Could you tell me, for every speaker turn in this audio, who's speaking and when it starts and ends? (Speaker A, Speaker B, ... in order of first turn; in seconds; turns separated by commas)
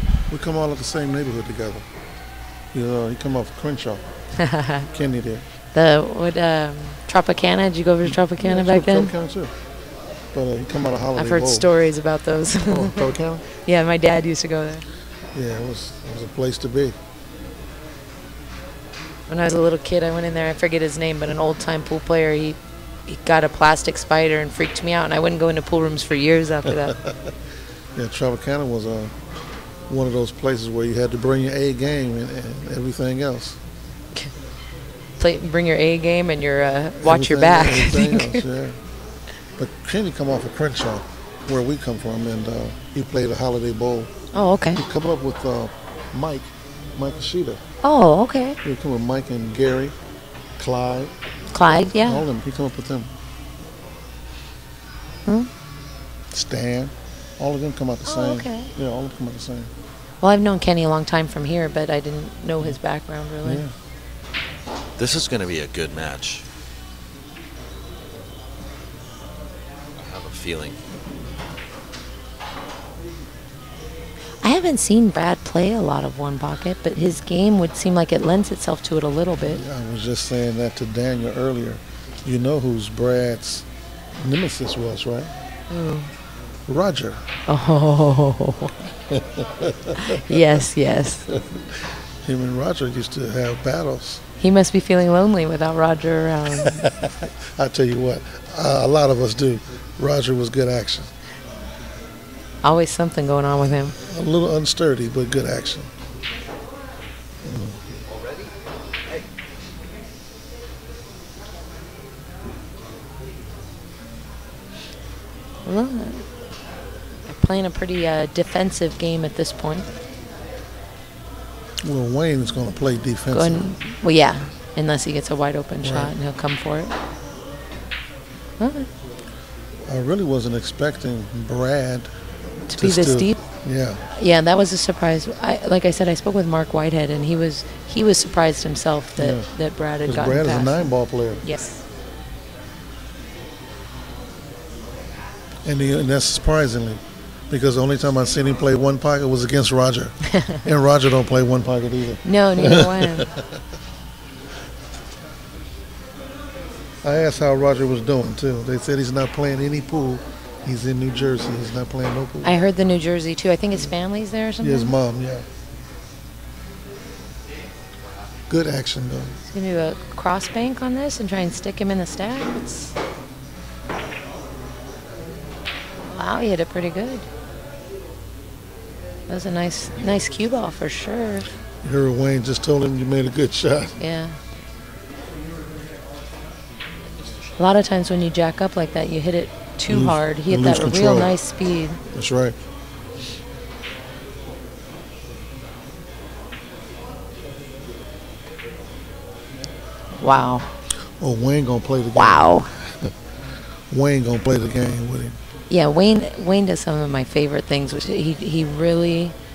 Speaker A: 0.3-1.8, Speaker A: 2.7-4.0, Speaker B: 4.4-4.9, Speaker A: 4.9-5.4, Speaker B: 5.7-9.1, Speaker A: 8.0-9.5, Speaker A: 10.3-11.7, Speaker B: 11.2-13.0, Speaker A: 12.6-13.4, Speaker B: 13.7-14.8, Speaker A: 15.3-16.9, Speaker B: 19.3-26.9, Speaker A: 26.6-27.3, Speaker A: 27.9-29.1, Speaker A: 29.9-33.6, Speaker B: 35.2-38.4, Speaker A: 37.0-38.8, Speaker A: 39.6-44.1, Speaker B: 44.3-44.8, Speaker A: 44.7-47.6, Speaker B: 47.8-48.6, Speaker A: 48.6-50.0, Speaker A: 50.6-53.1, Speaker B: 51.5-52.2, Speaker A: 56.3-59.7, Speaker B: 58.1-58.7, Speaker B: 60.2-63.6, Speaker A: 63.4-63.7, Speaker C: 65.0-66.4, Speaker C: 70.0-70.8, Speaker B: 74.4-79.6, Speaker A: 79.4-83.7, Speaker A: 84.2-85.3, Speaker B: 85.7-86.1, Speaker A: 86.7-87.2, Speaker B: 87.5-88.7, Speaker A: 89.1-90.4, Speaker B: 90.0-91.3, Speaker A: 91.3-94.2, Speaker B: 94.4-96.9, Speaker A: 96.6-101.1, Speaker B: 102.6-103.9, Speaker A: 104.1-105.9, Speaker A: 107.4-107.8, Speaker C: 108.1-108.5, Speaker B: 115.7-116.2, Speaker B: 117.3-119.9, Speaker A: 121.8-123.7, Speaker B: 123.3-126.9, Speaker A: 125.8-126.1, Speaker B: 128.6-128.9, Speaker A: 129.9-132.1, Speaker B: 132.7-133.4, Speaker A: 132.8-134.0, Speaker B: 134.1-140.9, Speaker A: 139.2-139.5, Speaker A: 140.1-141.4, Speaker B: 141.4-141.8, Speaker A: 145.6-153.6, Speaker B: 150.3-150.6, Speaker B: 152.2-153.3, Speaker A: 157.0-162.6, Speaker B: 162.4-164.9, Speaker A: 164.6-165.4, Speaker A: 168.5-169.3, Speaker B: 169.5-172.9, Speaker B: 176.1-177.3, Speaker B: 179.3-181.5, Speaker A: 181.8-184.0, Speaker B: 184.0-184.4, Speaker C: 187.2-187.5, Speaker B: 187.6-192.0, Speaker A: 189.9-191.4, Speaker A: 192.1-192.6, Speaker B: 200.2-200.7, Speaker A: 201.2-203.1, Speaker B: 202.2-202.7, Speaker A: 203.9-205.4, Speaker B: 205.7-209.3